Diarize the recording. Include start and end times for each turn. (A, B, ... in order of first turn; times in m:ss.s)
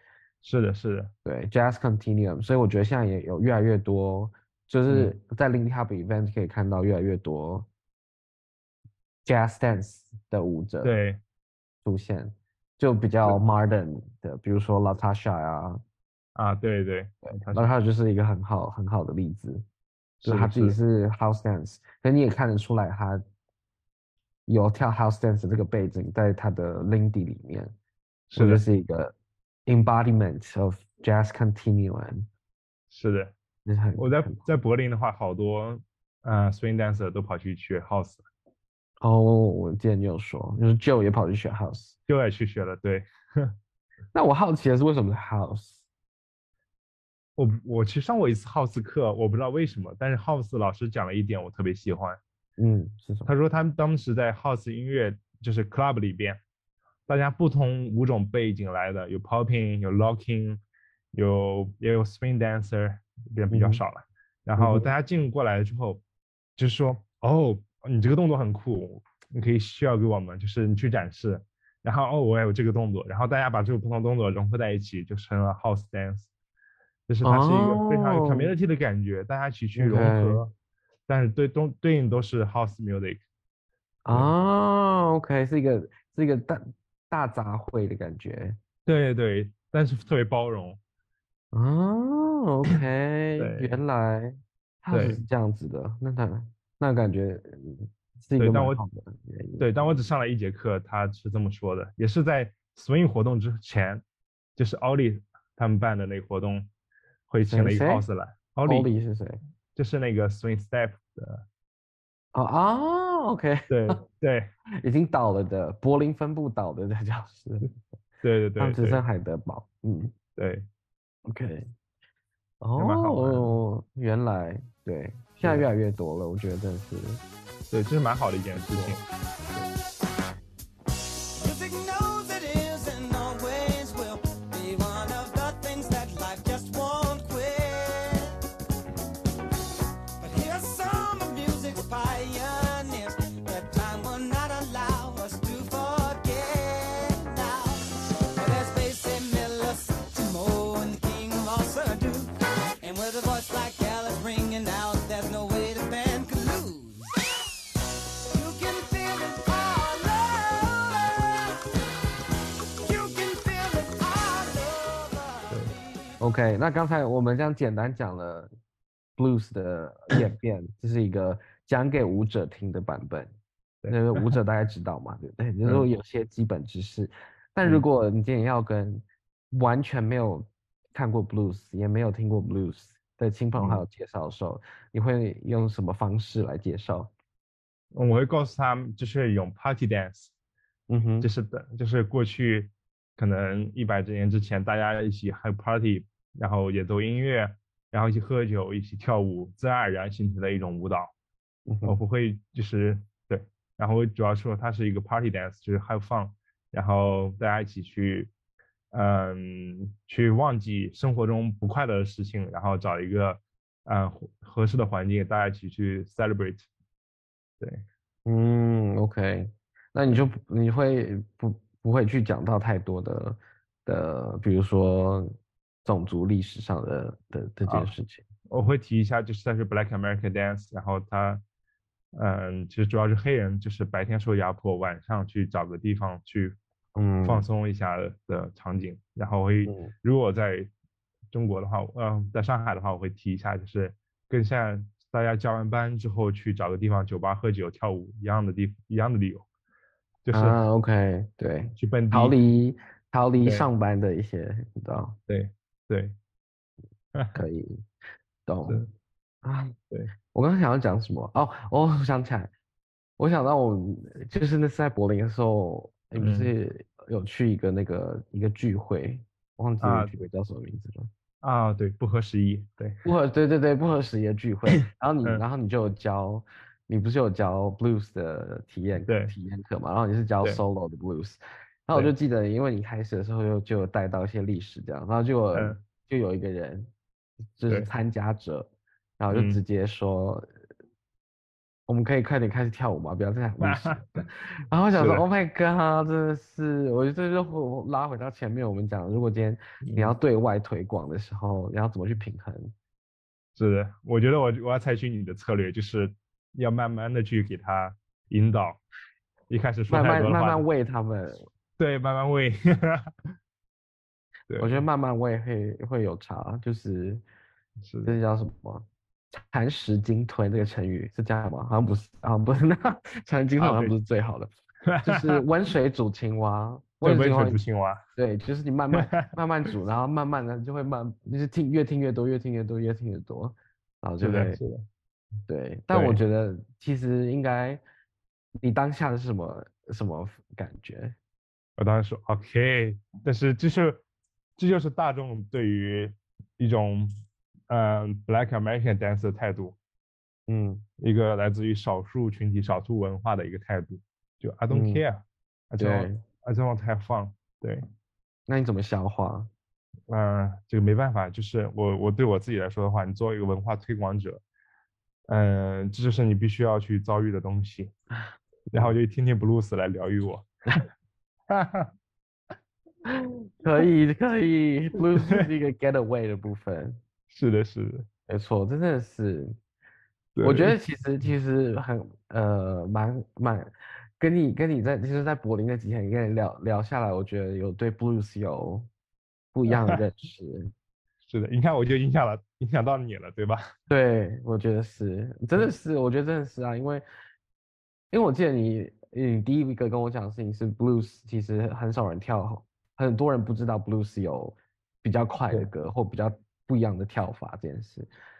0:00.4-0:01.1 A
0:01.2-0:07.7 B
0:04.9-0:05.1 A
0:09.2-0:10.9 B
0:10.8-0:11.2 A
0:11.8-0:15.8 B
0:16.3-0:17.7 A
0:17.3-0:19.6 B
0:20.2-0:20.8 A
0:20.2-0:23.2 B
0:24.5-0:27.7 B
0:28.3-0:28.6 A
0:28.4-0:29.1 B
0:29.6-0:32.3 B
0:32.9-0:33.3 A
0:33.6-0:34.4 B
0:34.0-0:38.2 A
0:39.0-0:42.0 B
0:42.1-0:43.5 A
0:44.1-0:45.8 B
0:47.4-0:52.2 A
0:52.6-0:53.3 B
0:53.3-0:56.4 A
0:57.1-1:00.6 A
1:01.1-1:06.0 A
1:03.5-1:03.8 B
1:04.6-1:04.9 B
1:06.6-1:16.3 A
1:17.1-1:20.5 A
1:17.2-1:18.5 B
1:19.8-1:20.4 B
1:21.1-1:23.2 A
1:24.0-1:28.6 B
1:28.9-1:30.8 A
1:31.5-1:39.6 B
1:33.4-1:33.8 A
1:34.9-1:35.2 A
1:38.4-1:38.8 A
1:39.6-1:44.0 A
1:44.6-1:46.7 A
1:47.3-1:48.9 A
1:47.4-1:48.0 B
1:48.6-1:49.4 B
1:49.7-1:51.4 A
1:52.3-1:54.0 B
1:53.7-1:54.5 A
1:54.8-1:57.7 B
1:58.2-1:59.0 A
1:58.6-2:00.1 B
2:00.4-2:00.6 A
2:01.3-2:01.7 B
2:02.6-2:07.2 B
2:02.8-2:03.5 A
2:05.4-2:05.7 A
2:07.7-2:09.0 A
2:08.6-2:09.0 B
2:11.4-2:18.4 C
2:20.2-2:37.2 C
2:38.3-2:41.6 C
2:42.8-2:45.9 C
2:46.2-2:48.5 B
2:49.2-2:53.3 B
2:53.8-2:54.3 A
2:53.9-3:07.1 B
3:03.6-3:03.8 A
3:07.9-3:10.3 A
3:10.9-3:11.3 B
3:11.2-3:21.1 A
3:21.7-3:22.0 B
3:21.8-3:28.3 A
3:28.9-3:36.7 A
3:38.3-3:45.3 B
3:45.8-3:48.2 B
3:47.6-3:47.9 A
3:48.5-3:51.4 A
3:52.1-3:56.6 A
3:57.0-3:57.4 B
3:57.2-4:00.7 A
3:59.6-3:59.9 B
4:01.3-4:09.4 A
4:10.2-4:10.6 A
4:10.3-4:15.2 B
4:11.8-4:12.4 A
4:13.4-4:13.7 A
4:15.3-4:16.1 A
4:17.1-4:17.4 A
4:17.3-4:17.8 B
4:18.4-4:18.8 B
4:18.6-4:18.9 A
4:19.4-4:19.8 B
4:20.3-4:22.5 B
4:23.2-4:31.1 B
4:26.2-4:26.5 A
4:29.8-4:30.2 A
4:31.4-4:33.0 A
4:33.0-4:46.9 B
4:39.0-4:39.3 A
4:45.5-4:45.8 A
4:47.6-4:50.5 B
4:49.3-4:49.6 A
4:51.9-5:02.7 B
4:53.6-4:54.2 A
4:54.9-4:55.2 A
4:59.8-5:00.1 A
5:03.6-5:08.8 A
5:09.5-5:10.6 A
5:09.9-5:11.5 B
5:11.8-5:13.1 A
5:14.5-5:14.8 A
5:14.6-5:17.2 B
5:17.8-5:18.2 A
5:18.0-5:24.5 B
5:23.6-5:24.0 A
5:24.9-5:25.4 A
5:25.0-5:27.6 B
5:27.0-5:28.0 A
5:28.2-5:34.6 B
5:28.9-5:29.3 A
5:34.2-5:34.9 A
5:35.5-5:37.8 B
5:35.9-5:36.2 A
5:38.6-5:41.2 B
5:41.8-5:44.0 A
5:44.6-5:47.1 A
5:47.7-5:49.8 A
5:50.5-5:50.8 B
5:51.0-5:57.8 A
5:54.7-5:55.0 B
5:55.8-5:56.2 B
5:58.5-5:59.5 B
6:00.1-6:04.4 A
6:05.3-6:07.9 A
6:08.3-6:09.0 B
6:08.7-6:10.8 A
6:11.5-6:11.9 A
6:13.1-6:17.0 B
6:17.3-6:18.1 A
6:18.3-6:19.6 B
6:20.4-6:20.8 A
6:20.4-6:28.9 B
6:29.5-6:30.7 B
6:29.7-6:30.0 A
6:31.3-6:33.7 A
6:33.9-6:37.0 B
6:38.1-6:48.1 B